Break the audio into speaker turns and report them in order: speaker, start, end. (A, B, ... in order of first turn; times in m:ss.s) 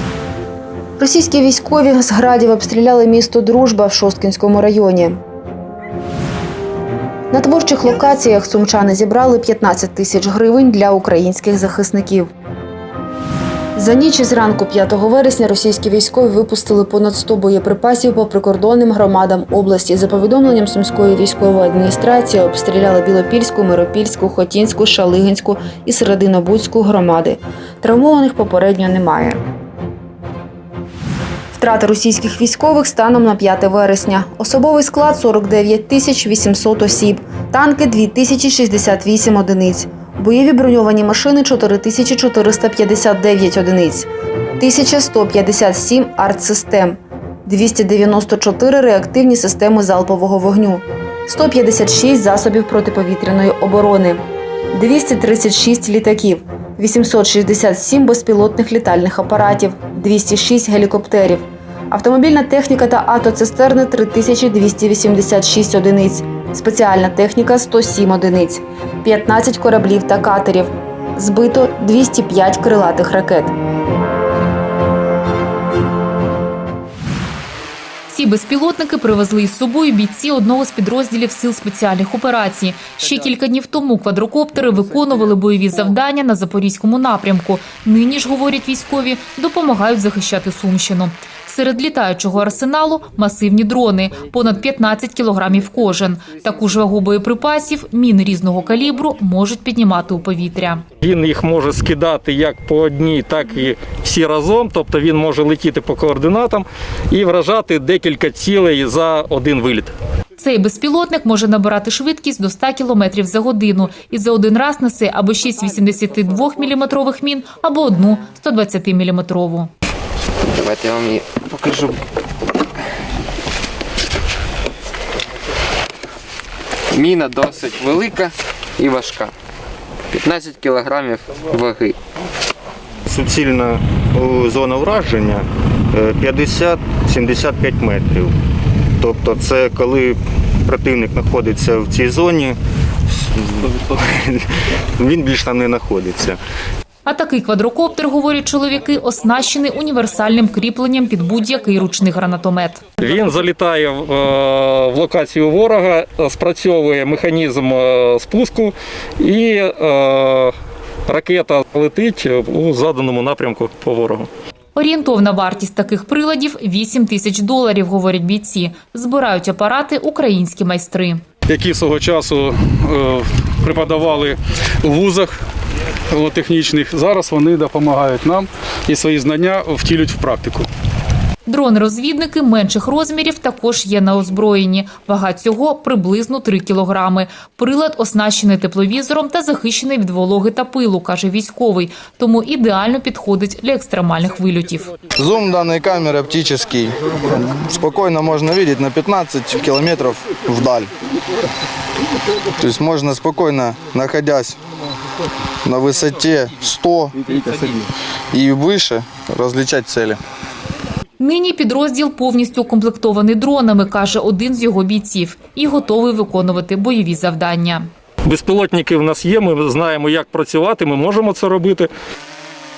0:01.0-0:05.2 A
0:07.3-0:12.3 A
0:13.8-0:29.4 A
0:31.6-0:54.2 A
0:54.7-1:13.5 A
1:18.1-1:40.8 B
1:41.0-1:49.9 C
1:50.4-1:59.7 B
2:00.6-2:01.9 D
2:06.9-2:09.3 D
2:10.1-2:11.9 D
2:13.1-2:18.3 E
2:19.0-2:22.6 E
2:23.4-2:23.7 E
2:25.0-2:26.4 E
2:27.0-2:32.8 B
2:33.0-2:40.5 C
2:41.1-2:44.3 C
2:44.7-2:51.2 B
2:51.5-2:55.3 F
2:56.1-3:00.7 F
3:01.4-3:14.9 B
3:15.2-3:20.9 G
3:22.6-3:24.6 G
3:25.6-3:27.8 G
3:28.3-3:30.2 G
3:31.2-3:37.9 B
3:38.2-3:41.9 C